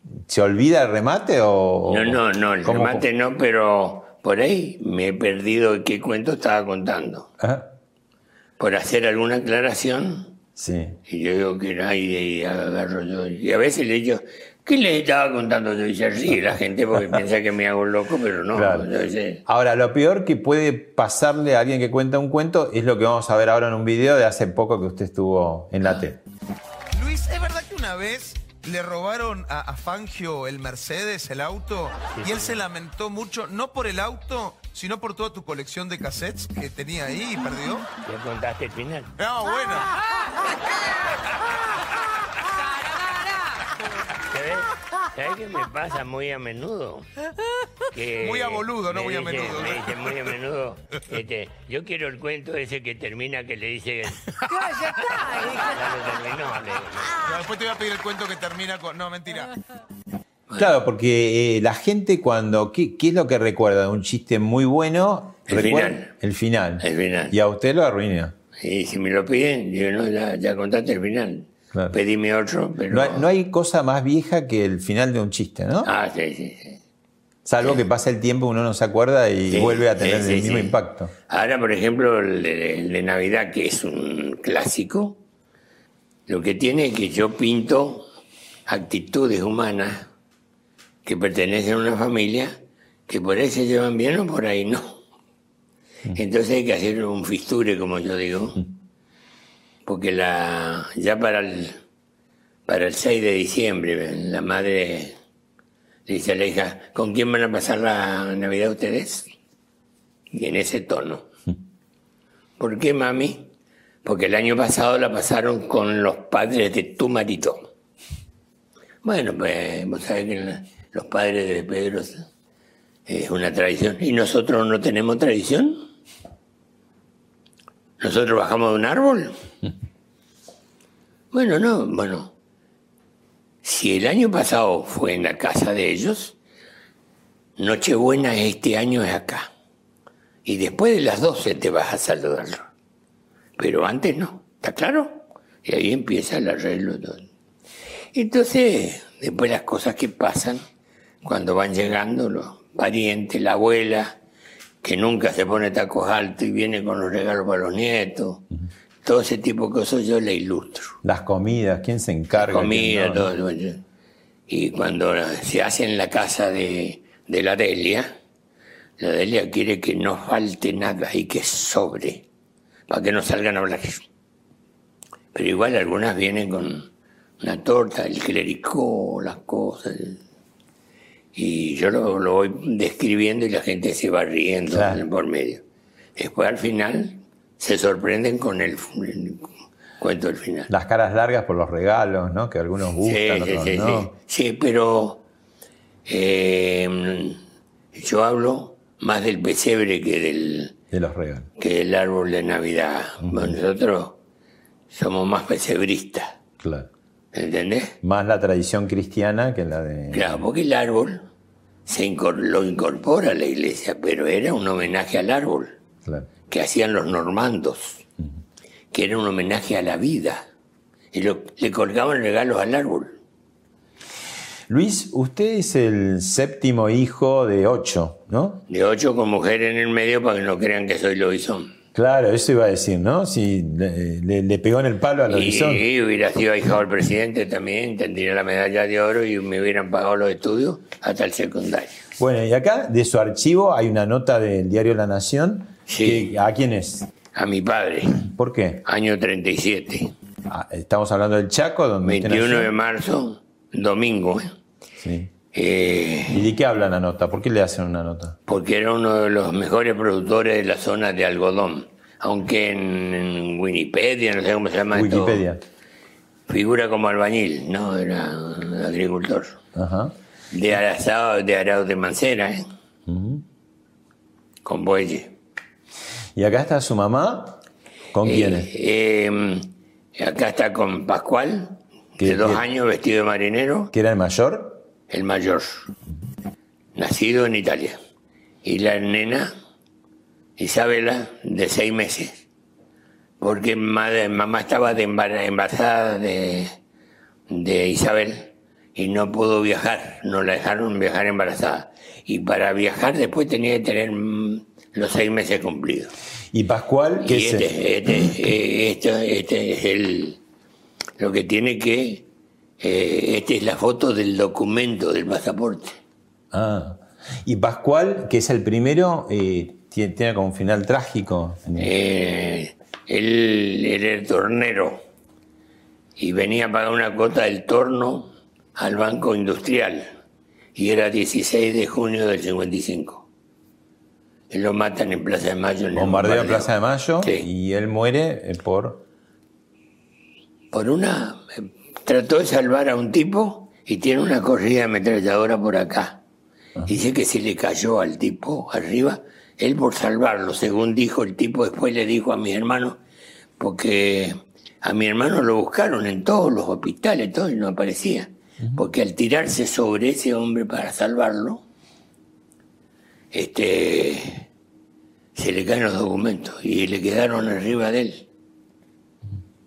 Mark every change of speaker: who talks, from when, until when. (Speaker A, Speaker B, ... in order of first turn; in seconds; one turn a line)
Speaker A: 0.3-3.0
Speaker B: 1.9-7.3
Speaker A: 7.4-7.7
Speaker B: 8.6-10.3
Speaker A: 10.6-11.0
Speaker B: 11.1-19.4
Speaker A: 18.5-18.9
Speaker A: 19.5-26.2
Speaker C: 26.9-37.9
Speaker B: 38.0-39.1
Speaker C: 39.2-39.9
Speaker B: 44.3-47.1
Speaker B: 47.9-54.4
Speaker C: 48.2-50.2
Speaker C: 55.1-55.4
Speaker B: 55.5-57.2
Speaker C: 57.2-59.6
Speaker A: 60.6-68.3
Speaker B: 65.5-66.1
Speaker B: 66.8-67.4
Speaker B: 68.6-73.3
Speaker A: 72.9-75.9
Speaker B: 75.8-76.8
Speaker A: 77.5-81.1
Speaker B: 79.5-80.8
Speaker B: 81.3-85.2
Speaker B: 86.3-88.1
Speaker B: 88.7-90.1
Speaker B: 91.0-92.6
Speaker B: 93.1-95.0
Speaker B: 96.1-98.6
Speaker B: 99.9-101.8
Speaker B: 102.7-105.2
Speaker B: 106.1-109.3
Speaker B: 110.3-111.3
Speaker B: 112.6-113.5
Speaker B: 114.0-117.7
Speaker B: 119.0-122.2
Speaker B: 123.1-125.8
Speaker B: 128.0-129.3
Speaker B: 131.3-132.3
Speaker B: 133.6-136.4
Speaker B: 137.6-139.5
Speaker B: 140.4-142.7
Speaker B: 143.6-147.2
Speaker B: 148.2-150.6
Speaker B: 151.2-154.2
Speaker B: 154.8-158.4
Speaker B: 159.0-161.0
Speaker A: 161.0-163.3
Speaker B: 162.3-163.8
Speaker B: 164.5-168.1
Speaker B: 169.0-172.2
Speaker B: 172.9-174.1
Speaker B: 175.3-176.9
Speaker B: 177.4-180.2
Speaker B: 181.3-185.6
Speaker A: 184.7-185.0
Speaker B: 186.2-189.5
Speaker B: 190.0-190.7
Speaker A: 190.7-194.1
Speaker B: 193.0-195.2
Speaker B: 196.1-197.4
Speaker B: 197.9-200.8
Speaker A: 200.9-201.5
Speaker B: 201.6-204.2
Speaker A: 203.2-203.6
Speaker B: 204.9-206.3
Speaker A: 206.6-206.9
Speaker B: 207.3-208.0
Speaker A: 208.0-210.4
Speaker B: 210.1-211.2
Speaker B: 211.9-215.8
Speaker B: 216.5-218.0
Speaker B: 218.9-220.4
Speaker B: 221.1-223.2
Speaker A: 224.7-228.6
Speaker B: 228.7-231.7
Speaker A: 231.9-235.8
Speaker B: 235.3-242.0
Speaker A: 242.2-247.1
Speaker B: 245.9-246.3
Speaker B: 247.3-248.2
Speaker A: 248.2-248.8
Speaker B: 248.8-250.1
Speaker A: 250.5-252.7
Speaker B: 252.0-254.5
Speaker A: 255.0-255.3
Speaker B: 255.5-256.5
Speaker A: 256.3-258.4
Speaker B: 258.5-265.4
Speaker A: 264.9-265.6
Speaker B: 266.5-269.6
Speaker A: 269.8-270.1
Speaker B: 270.5-272.6
Speaker A: 273.1-273.4
Speaker B: 274.6-275.3
Speaker A: 276.4-277.6
Speaker A: 278.1-278.7
Speaker B: 278.2-283.9
Speaker A: 282.2-282.6
Speaker A: 283.9-284.8
Speaker B: 285.1-285.9
Speaker B: 287.0-288.0
Speaker B: 288.6-289.5
Speaker B: 290.6-292.4
Speaker B: 293.4-296.7
Speaker B: 297.5-306.1
Speaker A: 306.5-308.4
Speaker B: 307.2-310.4
Speaker B: 311.2-312.2
Speaker B: 312.8-316.0
Speaker A: 316.5-321.9
Speaker B: 321.8-325.0
Speaker B: 326.2-330.1
Speaker B: 330.8-333.2
Speaker B: 334.5-337.4
Speaker A: 335.9-339.0
Speaker B: 340.7-346.2
Speaker B: 346.9-353.0
Speaker B: 353.6-361.6
Speaker B: 363.3-364.4
Speaker B: 365.4-368.3